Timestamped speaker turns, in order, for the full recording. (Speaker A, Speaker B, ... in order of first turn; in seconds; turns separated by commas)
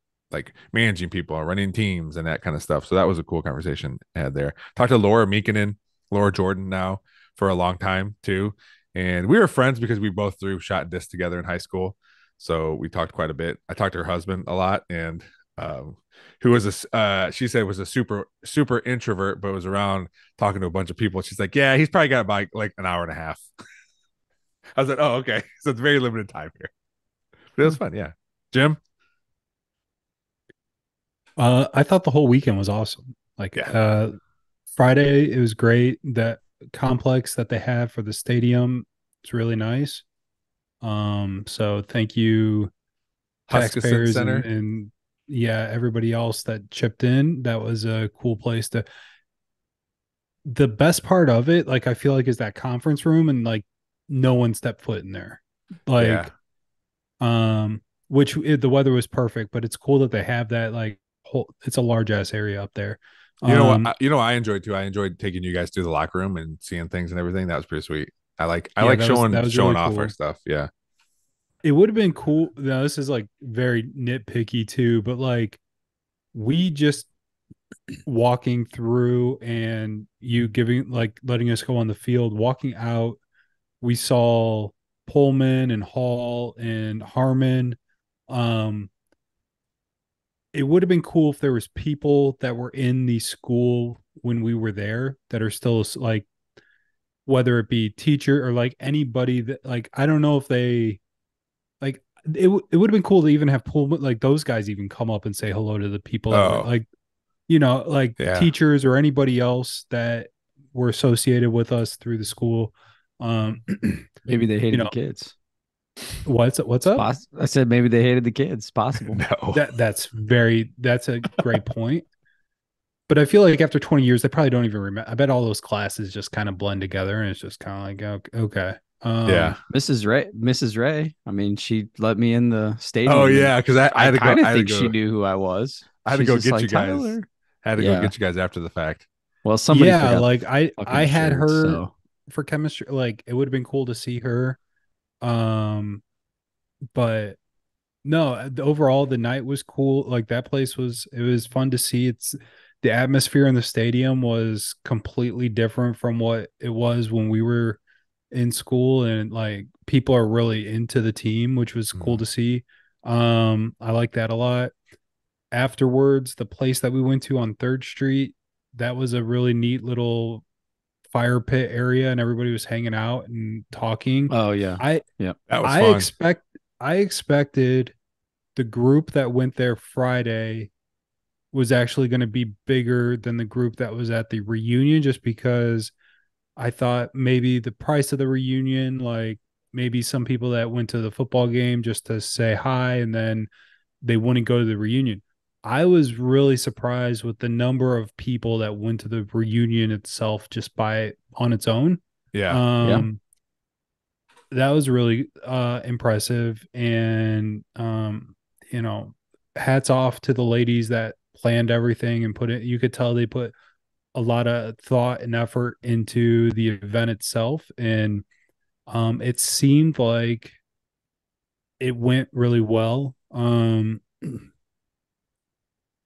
Speaker A: 0.3-23.4, Speaker A: 24.8-26.7, Speaker A: 27.6-28.8, Speaker B: 31.4-34.2, Speaker B: 34.7-40.0, Speaker B: 40.8-42.7, Speaker A: 43.5-44.5, Speaker B: 43.5-48.9, Speaker B: 50.5-56.3, Speaker A: 56.0-56.3, Speaker B: 57.2-63.9, Speaker A: 63.5-70.7, Speaker B: 68.8-70.1, Speaker B: 71.6-75.6, Speaker B: 76.3-77.1, Speaker B: 78.0-83.2, Speaker B: 83.8-87.8, Speaker B: 88.3-88.9, Speaker B: 90.5-96.3, Speaker B: 97.3-101.0, Speaker B: 101.8-106.9, Speaker A: 106.3-106.7, Speaker B: 107.5-114.1, Speaker A: 108.2-108.5, Speaker C: 114.2-115.3, Speaker B: 116.2-117.1, Speaker C: 117.0-119.2, Speaker A: 119.0-119.6, Speaker B: 119.5-122.0, Speaker B: 123.1-129.6, Speaker A: 129.3-129.6, Speaker C: 129.7-137.3, Speaker A: 133.1-134.9, Speaker A: 136.1-139.1, Speaker C: 137.8-138.1, Speaker C: 139.4-141.9, Speaker B: 139.7-144.6, Speaker B: 145.2-146.0, Speaker B: 146.9-147.4, Speaker B: 148.0-157.8, Speaker B: 158.3-164.7, Speaker A: 161.9-162.2, Speaker B: 165.5-170.4, Speaker B: 171.1-175.0, Speaker C: 174.3-175.4, Speaker A: 175.5-176.1, Speaker B: 175.6-177.9, Speaker B: 178.6-180.7, Speaker B: 181.5-185.9, Speaker B: 186.6-193.5, Speaker B: 194.0-203.2, Speaker A: 202.3-202.6, Speaker C: 202.8-203.1, Speaker B: 204.5-213.5, Speaker B: 214.2-218.2, Speaker B: 218.9-220.6, Speaker B: 221.8-224.5